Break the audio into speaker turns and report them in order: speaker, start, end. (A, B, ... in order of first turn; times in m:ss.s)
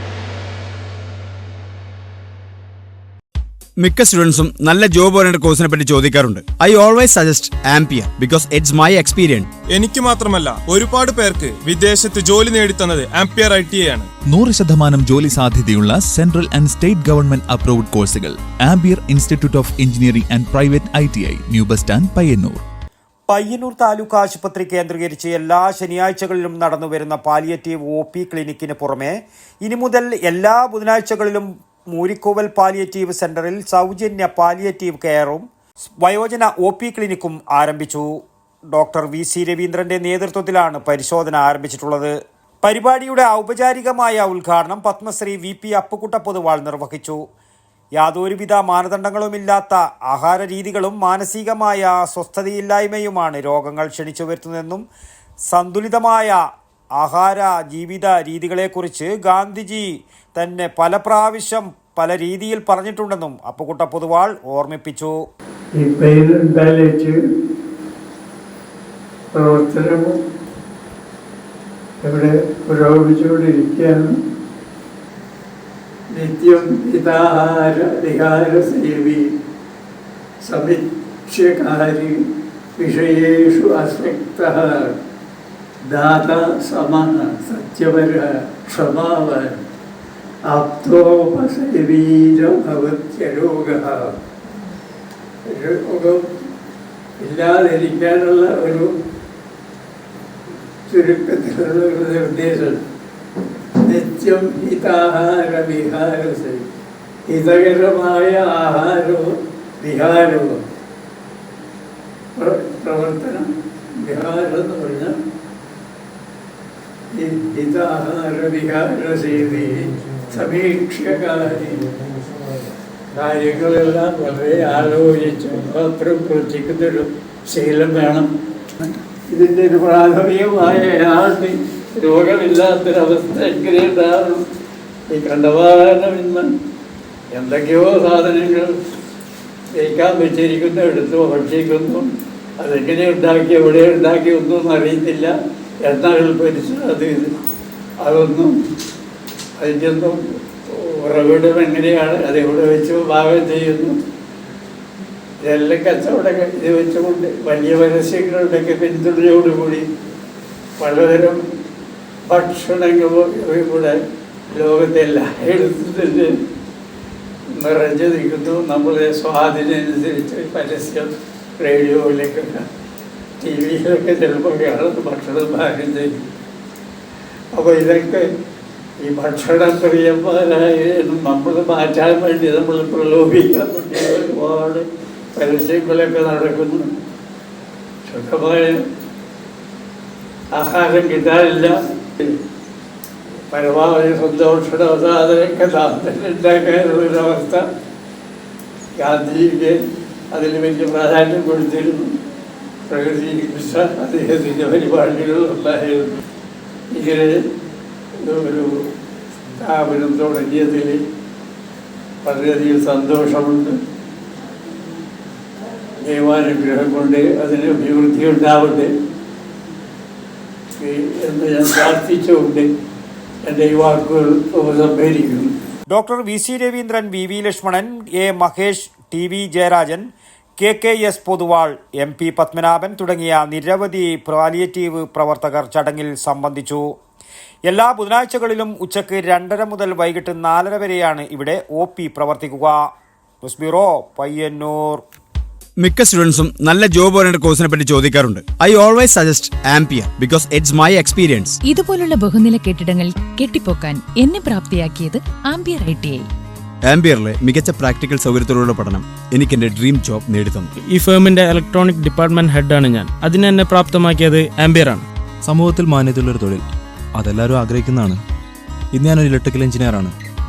0:03.8-0:09.5 A
0:09.7-0:14.1 B
0:14.3-0:22.6 C
0:23.3-0:38.1 D
0:38.7-0:47.2 D
0:48.0-0:54.8 D
0:55.5-0:56.4 D
0:57.0-1:05.2 D
1:05.8-1:07.2 E
1:09.3-1:10.2 E
1:12.0-1:14.2 E
1:16.1-1:19.3 E
1:20.4-1:24.9 E
1:25.8-1:29.6 E
1:30.4-1:34.2 E
1:35.4-1:36.3 E
1:37.2-1:38.9 E
1:40.9-1:42.8 E
1:43.8-1:46.6 E
1:47.2-1:50.6 E
1:52.3-1:55.2 E
1:57.1-2:01.9 E
2:03.1-2:14.4 E
2:15.1-2:16.5 E
2:17.3-2:18.8 E
2:19.7-2:27.3 E
2:28.0-2:28.6 E
2:29.6-2:34.0 E
2:35.4-2:39.9 E
2:40.8-2:41.4 E
2:42.3-2:46.4 E
2:47.5-2:52.7 E
2:53.4-2:56.3 E
2:57.5-2:58.3 E
2:59.0-3:06.9 E
3:08.0-3:08.8 E
3:10.5-3:12.4 E
3:13.5-3:17.6 E
3:19.0-3:22.1 E
3:22.9-3:26.2 E
3:26.9-3:27.5 E
3:28.2-3:28.9 E
3:29.6-3:31.0 E
3:32.2-3:33.8 E
3:36.0-3:38.9 E
3:40.8-3:42.7 E
3:43.4-3:45.5 E
3:45.9-3:50.0 D
3:50.6-3:56.8 D
3:57.7-4:02.8 D
4:03.4-4:05.0 D
4:05.8-4:11.6 A
4:11.6-4:16.2 F
4:16.8-4:20.7 A
4:20.8-4:25.0 G
4:25.4-4:26.6 H
4:27.2-4:28.2 H
4:29.0-4:30.1 H